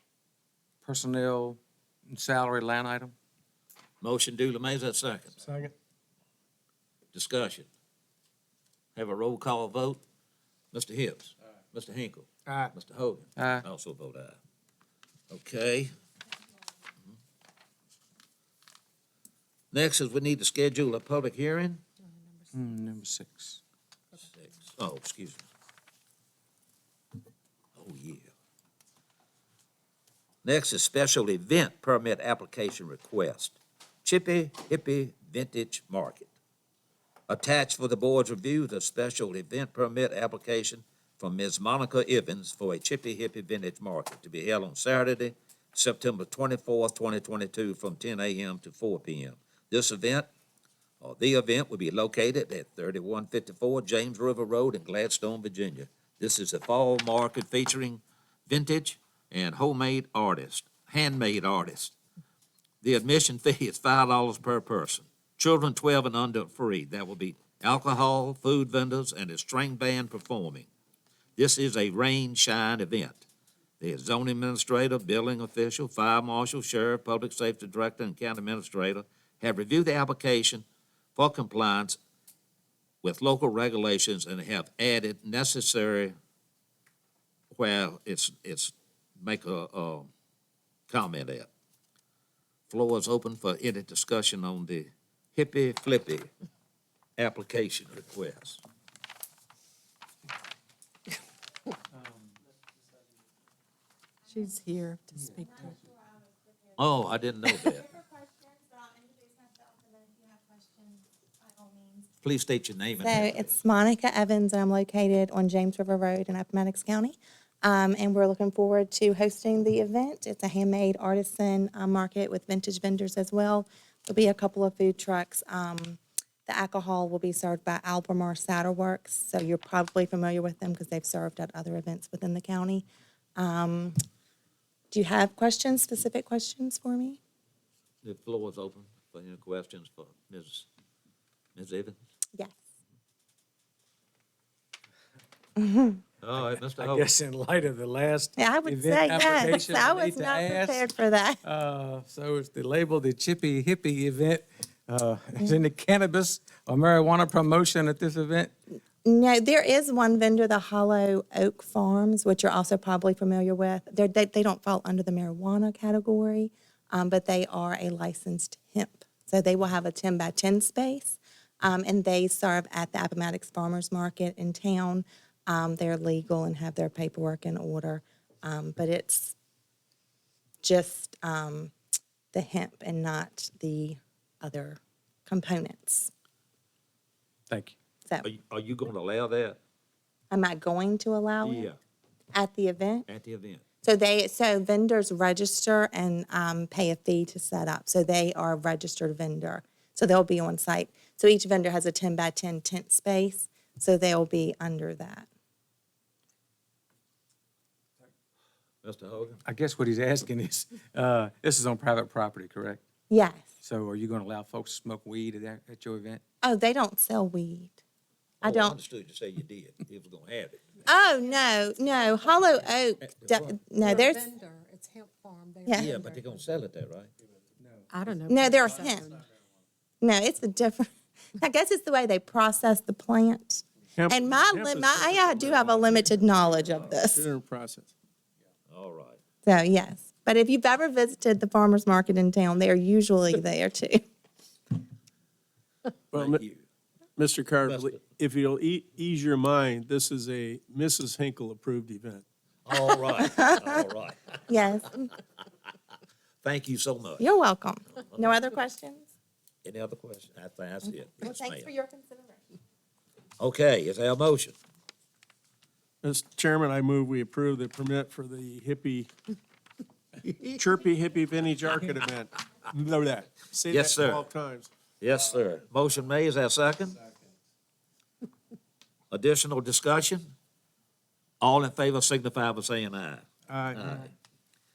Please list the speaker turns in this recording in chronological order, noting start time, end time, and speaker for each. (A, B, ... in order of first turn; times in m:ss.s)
0:00.8-0:03.1 A
0:04.0-0:05.3 B
0:05.4-0:05.7 C
0:07.1-0:07.7 B
0:09.0-0:10.0 B
0:10.7-0:14.4 B
0:12.5-0:12.7 C
0:13.4-0:13.6 A
0:15.3-0:15.9 B
0:19.7-0:21.8 B
0:22.0-0:22.5 D
0:22.5-0:23.6 A
0:24.4-0:25.5 B
0:27.8-0:28.3 B
0:30.4-0:36.3 B
0:37.3-0:50.3 B
0:51.0-1:02.0 B
1:02.8-1:10.7 B
1:11.4-1:13.2 B
1:13.8-1:20.6 B
1:21.2-1:22.0 B
1:23.0-1:26.1 B
1:27.5-1:30.1 B
1:30.9-1:31.5 B
1:32.7-1:36.3 B
1:37.2-1:38.6 B
1:44.3-1:45.8 D
1:46.1-1:46.7 E
1:46.8-1:47.9 B
1:48.3-1:52.0 E
1:52.2-1:53.5 B
1:53.0-2:12.8 E
2:13.4-2:14.0 E
2:14.9-2:17.2 E
2:18.0-2:20.7 B
2:21.6-2:22.0 B
2:25.6-2:26.0 E
2:26.2-2:27.1 B
2:26.8-2:30.8 A
2:28.4-2:31.4 E
2:31.4-2:38.5 A
2:39.0-2:59.3 E
3:00.6-3:01.7 E
3:02.3-3:06.1 E
3:07.5-3:07.7 A
3:08.2-3:09.6 B
3:10.3-3:11.7 E
3:11.4-3:11.8 B
3:12.3-3:13.0 E
3:13.1-3:13.6 B
3:13.8-3:25.2 E
3:28.8-3:29.4 B
3:29.4-3:32.8 A
3:33.1-3:33.5 E
3:33.6-3:36.2 A
3:36.4-3:37.8 E
3:38.4-3:38.8 E
3:38.4-3:40.7 B
3:40.8-3:44.2 E
3:43.0-3:43.5 B
3:43.8-3:46.3 D
3:45.7-3:47.1 B
3:47.9-3:49.2 D
3:48.3-3:49.1 E
3:50.0-3:57.2 E
3:54.0-3:56.1 C
3:56.9-3:57.9 C
3:58.7-3:59.2 B
3:59.4-4:04.0 E
4:06.1-4:06.4 C
4:06.1-4:06.6 B
4:07.2-4:12.2 C
4:07.6-4:08.0 B
4:12.6-4:14.4 B
4:13.2-4:13.6 E
4:14.5-4:15.1 E
4:16.4-4:17.2 B
4:17.2-4:19.1 E
4:19.6-4:21.7 B
4:21.2-4:22.4 E
4:23.4-4:24.6 B
4:26.0-4:29.1 C
4:30.5-4:34.7 C
4:33.7-4:34.2 B
4:35.0-4:37.0 B
4:39.1-4:40.3 B
4:41.4-4:44.1 B
4:43.5-4:43.9 C